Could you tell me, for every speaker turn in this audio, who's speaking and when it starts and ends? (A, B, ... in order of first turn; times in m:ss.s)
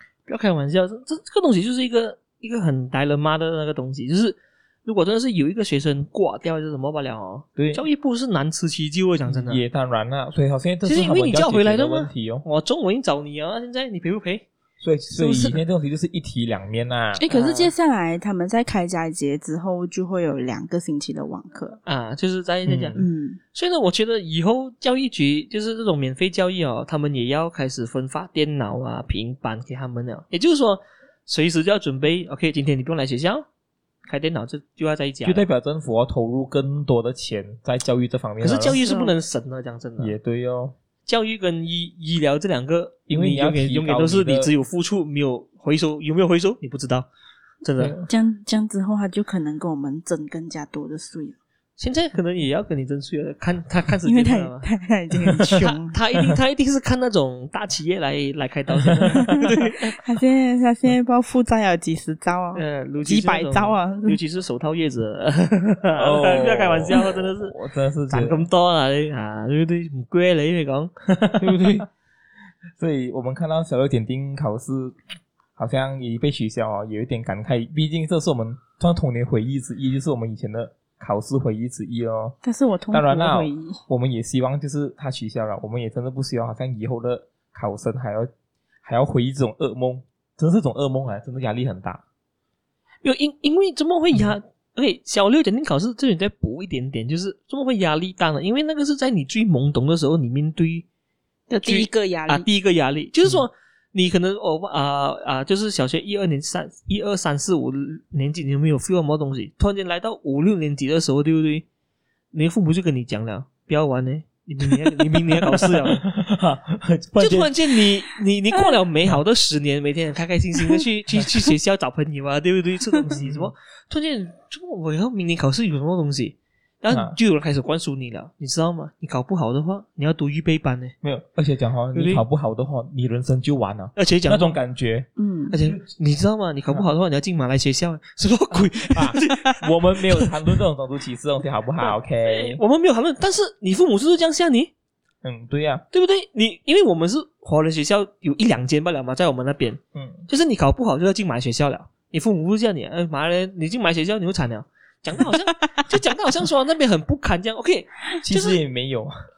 0:00.3-0:09.6 A
0:07.6-0:07.9 B
0:09.3-0:12.4 B
0:10.8-0:14.5 A
0:14.8-0:17.2 B
0:15.1-0:15.6 A
0:17.2-0:21.8 C
0:17.3-0:17.7 A
0:21.8-0:33.5 A
0:22.7-0:23.0 B
0:23.0-0:23.4 C
0:34.1-0:35.4 A
0:35.2-0:38.8 B
0:38.4-0:40.2 A
0:38.8-0:39.1 C
0:40.0-0:40.8 B
0:41.1-0:47.1 A
0:43.1-0:44.5 B
0:47.6-0:48.0 A
0:47.8-0:48.1 B
0:48.1-0:51.4 C
0:51.8-0:54.7 A
0:54.0-0:56.0 C
0:55.4-1:00.0 A
0:58.7-0:59.4 B
0:59.2-1:04.2 C
1:02.5-1:07.5 A
1:06.0-1:08.5 B
1:08.1-1:11.9 A
1:11.1-1:11.9 B
1:12.8-1:15.0 B
1:15.6-1:22.4 B
1:22.4-1:23.8 C
1:22.9-1:28.3 B
1:28.8-1:32.0 B
1:33.0-1:40.9 A
1:41.5-1:42.5 C
1:41.6-1:51.7 A
1:52.3-1:56.0 A
1:54.6-1:57.6 B
1:57.2-2:10.9 A
2:03.1-2:03.5 B
2:06.9-2:07.2 B
2:11.0-2:15.1 B
2:12.0-2:12.2 A
2:14.0-2:14.6 A
2:15.2-2:15.6 C
2:15.5-2:19.5 A
2:18.5-2:22.6 B
2:19.3-2:19.6 C
2:21.8-2:24.7 A
2:25.2-2:25.8 B
2:25.9-2:38.6 A
2:30.0-2:30.3 B
2:38.2-2:39.1 B